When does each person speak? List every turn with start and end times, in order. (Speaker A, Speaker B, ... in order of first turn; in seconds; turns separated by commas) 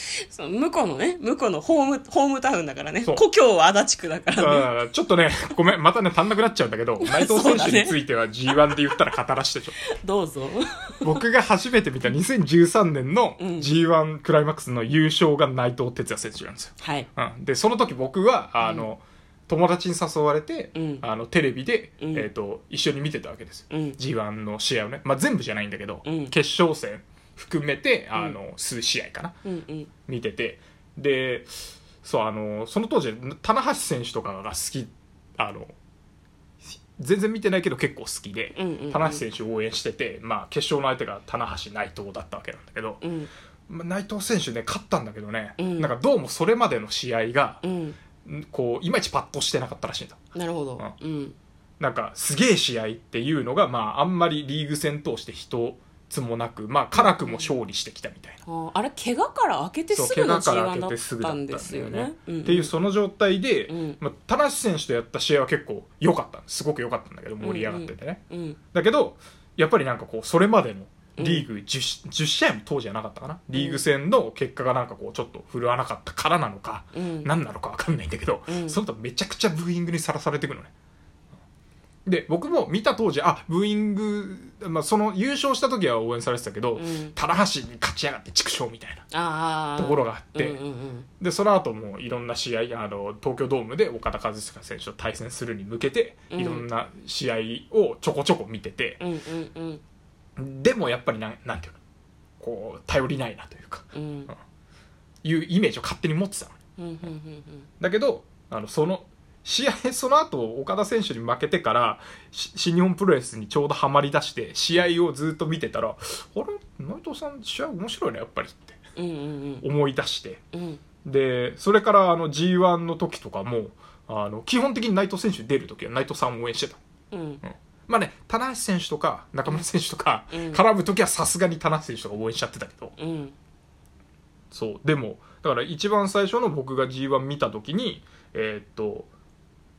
Speaker A: 0.3-4.7, Speaker B: 4.4-9.9, Speaker A: 7.0-7.9, Speaker A: 9.9-11.1, Speaker B: 11.0-29.4, Speaker A: 13.4-13.7, Speaker A: 16.8-17.1, Speaker A: 18.6-18.9, Speaker A: 20.8-21.0, Speaker A: 22.0-22.3, Speaker A: 23.7-24.0, Speaker A: 26.1-26.3, Speaker A: 29.5-29.9, Speaker B: 30.1-35.7, Speaker B: 36.6-43.0, Speaker A: 38.6-39.2, Speaker A: 43.0-43.3, Speaker B: 43.7-47.6, Speaker A: 45.6-45.9, Speaker A: 47.6-48.0, Speaker B: 48.2-50.2, Speaker A: 50.4-51.4, Speaker B: 51.8-58.4, Speaker A: 57.0-57.5, Speaker A: 58.5-62.7, Speaker B: 59.9-68.2, Speaker A: 63.7-64.0, Speaker A: 67.4-68.6, Speaker B: 68.7-80.7, Speaker A: 71.2-71.5, Speaker A: 73.5-73.8, Speaker A: 77.0-77.3, Speaker A: 78.5-78.8, Speaker B: 82.1-89.1, Speaker A: 86.8-87.2, Speaker A: 89.1-91.1, Speaker B: 89.8-90.6, Speaker B: 91.2-99.0, Speaker A: 96.3-96.7, Speaker A: 99.0-99.8, Speaker B: 100.4-101.8, Speaker B: 102.4-104.3, Speaker A: 103.9-104.3, Speaker B: 105.2-106.6, Speaker A: 106.8-107.7, Speaker B: 107.8-118.8, Speaker A: 119.0-119.7, Speaker B: 119.6-120.4, Speaker A: 120.5-120.8, Speaker B: 121.0-126.8, Speaker A: 127.1-127.4, Speaker B: 127.4-133.0, Speaker A: 130.3-130.6, Speaker A: 133.0-133.3, Speaker B: 134.5-139.1